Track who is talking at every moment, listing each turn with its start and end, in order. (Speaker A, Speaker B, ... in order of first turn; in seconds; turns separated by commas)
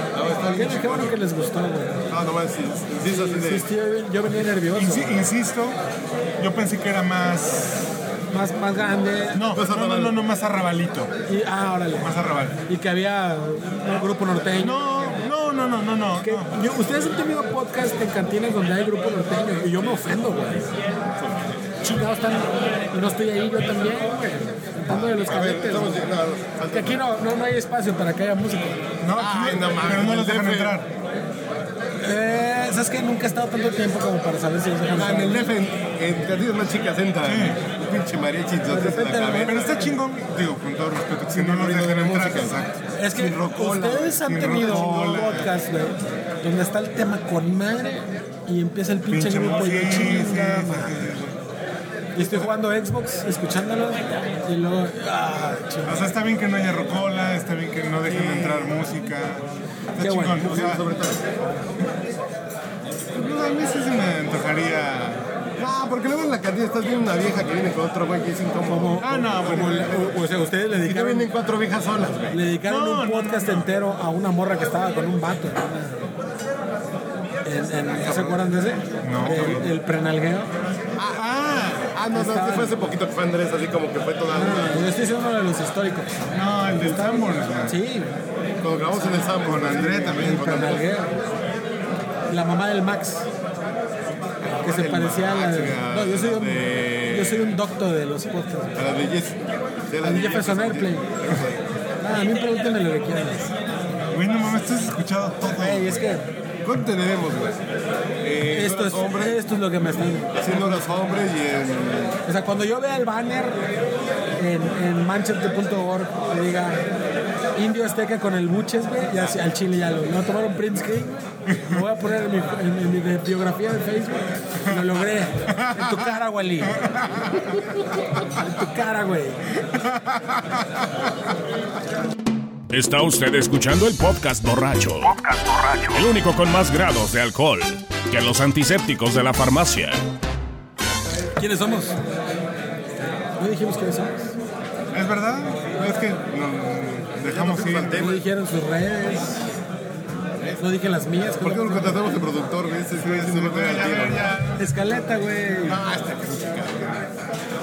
Speaker A: 0.1-1.2, Speaker B: 0.5-2.0, Speaker A: 2.1-3.7, Speaker B: 3.0-5.2, Speaker C: 4.7-5.8, Speaker C: 6.4-7.9, Speaker B: 8.3-9.4, Speaker C: 9.3-11.1, Speaker A: 9.5-10.2, Speaker B: 11.3-12.1, Speaker C: 12.0-12.6, Speaker B: 12.7-15.2, Speaker C: 14.6-16.6, Speaker B: 16.2-20.7, Speaker A: 21.2-21.5, Speaker B: 21.8-26.1, Speaker A: 24.9-27.0, Speaker B: 26.7-28.8, Speaker C: 29.0-30.9, Speaker A: 29.2-30.8, Speaker B: 32.0-35.5, Speaker A: 34.9-39.7, Speaker C: 37.2-37.6, Speaker B: 38.7-39.9, Speaker C: 39.5-42.8, Speaker A: 41.3-44.9, Speaker B: 43.0-51.1, Speaker C: 44.2-45.5, Speaker C: 49.1-51.4, Speaker B: 52.1-56.1, Speaker C: 55.9-60.8, Speaker B: 58.1-58.6, Speaker B: 60.0-60.5, Speaker A: 60.3-61.2, Speaker C: 63.1-65.3, Speaker A: 65.6-70.1, Speaker B: 68.6-71.3, Speaker C: 69.0-70.0, Speaker A: 70.8-72.4, Speaker B: 72.3-76.1, Speaker C: 72.7-73.7, Speaker B: 77.5-80.5, Speaker A: 77.8-78.5, Speaker C: 79.0-79.7, Speaker A: 79.3-79.6, Speaker A: 81.0-81.2, Speaker C: 81.2-82.0, Speaker A: 81.9-84.9, Speaker B: 82.1-82.8, Speaker B: 84.3-86.1, Speaker C: 86.3-87.8, Speaker B: 86.8-88.2, Speaker A: 88.6-90.8, Speaker B: 89.0-89.2, Speaker C: 89.4-90.6, Speaker B: 90.1-91.2, Speaker B: 92.3-93.3, Speaker A: 94.4-97.5, Speaker B: 94.6-98.8, Speaker A: 98.8-99.4, Speaker A: 99.9-101.6, Speaker B: 100.0-101.2, Speaker B: 102.0-103.5, Speaker C: 104.1-106.1, Speaker B: 105.5-106.3, Speaker A: 106.6-107.6, Speaker A: 108.2-109.4, Speaker B: 108.5-110.4, Speaker A: 110.3-112.2, Speaker B: 112.3-113.6, Speaker B: 114.4-116.8, Speaker B: 117.5-126.8, Speaker C: 121.5-121.8, Speaker C: 125.5-126.1, Speaker C: 126.8-127.3, Speaker B: 128.3-129.4, Speaker D: 132.7-140.0, Speaker B: 141.4-142.0, Speaker B: 143.4-144.3, Speaker C: 144.9-148.1, Speaker A: 147.2-148.2, Speaker B: 147.9-149.4, Speaker B: 150.6-152.0, Speaker A: 151.4-154.2, Speaker C: 153.0-154.7, Speaker B: 154.6-155.8, Speaker A: 155.7-157.0